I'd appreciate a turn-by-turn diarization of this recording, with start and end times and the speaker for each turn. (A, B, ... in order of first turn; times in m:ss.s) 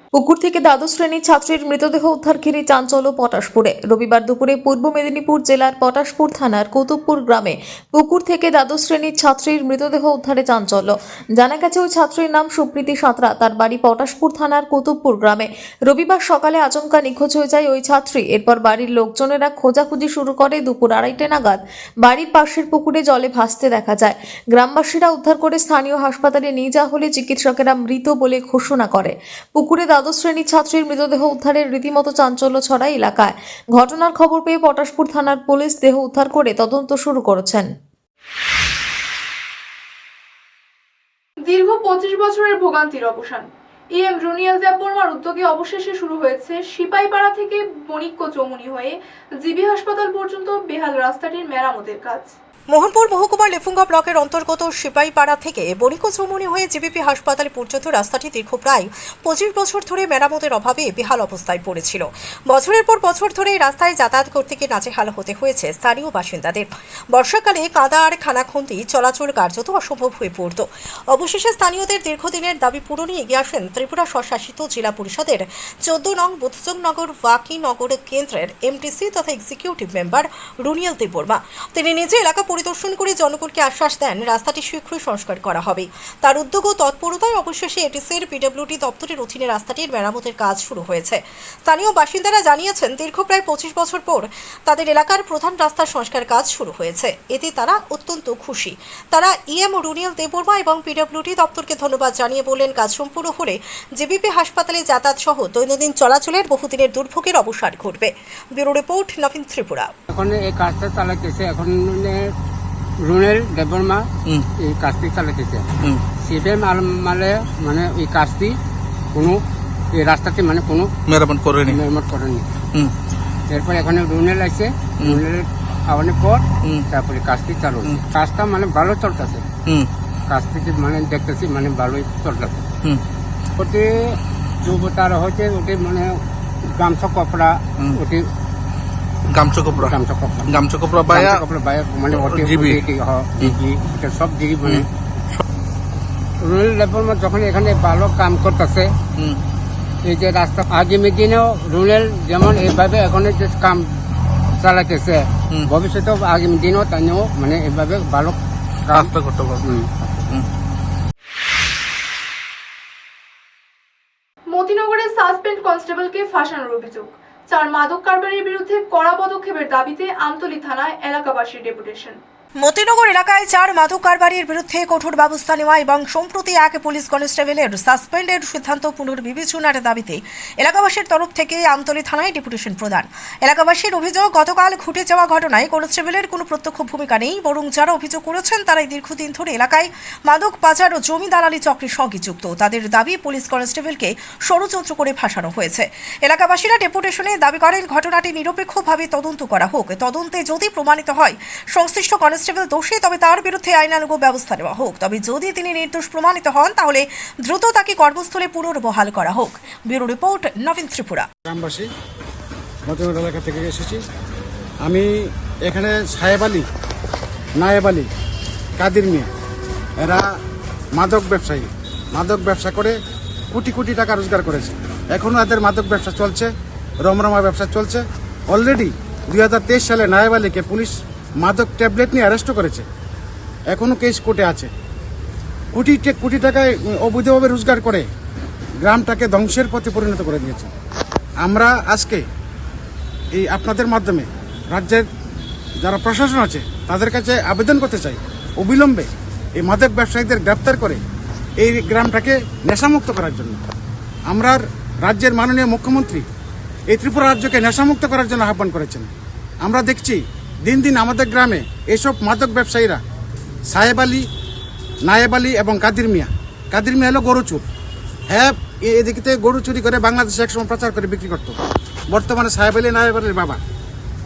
0:00.1-0:37.7 A
0:41.5-0:52.3 B
0:52.7-1:49.9 C
1:50.1-1:52.3 D
1:53.1-1:54.1 D
1:54.6-1:55.7 D
1:56.2-1:58.5 D
1:59.1-1:59.4 D
1:59.9-2:00.9 D
2:01.1-2:01.7 E
2:01.6-2:02.5 D
2:03.5-2:09.4 D
2:10.3-2:12.6 D
2:13.6-2:16.2 D
2:16.8-2:18.2 D
2:19.3-2:19.8 E
2:19.6-2:24.9 D
2:20.5-2:21.4 E
2:22.3-2:22.7 E
2:26.4-2:28.9 D
2:30.0-2:33.8 D
2:34.6-2:39.9 D
2:39.0-2:39.4 E
2:44.5-2:52.2 B
2:52.6-3:31.3 C
3:31.4-3:31.9 F
3:32.9-3:34.0 F
3:34.8-3:35.1 F
3:35.6-3:36.6 F
3:37.6-3:38.1 F
3:38.8-3:39.3 F
3:40.0-3:40.3 F
3:41.0-3:43.0 F
3:43.5-3:46.5 F
3:47.0-3:52.8 F
3:53.7-3:54.7 F
3:55.7-3:58.1 F
3:58.8-4:00.7 F
4:01.4-4:02.2 F
4:03.3-4:05.1 F
4:05.8-4:11.0 F
4:11.6-4:13.6 F
4:14.3-4:16.2 F
4:16.9-4:19.1 F
4:19.6-4:23.0 F
4:23.7-4:24.2 F
4:25.1-4:27.6 F
4:28.3-4:31.6 F
4:32.1-4:33.6 F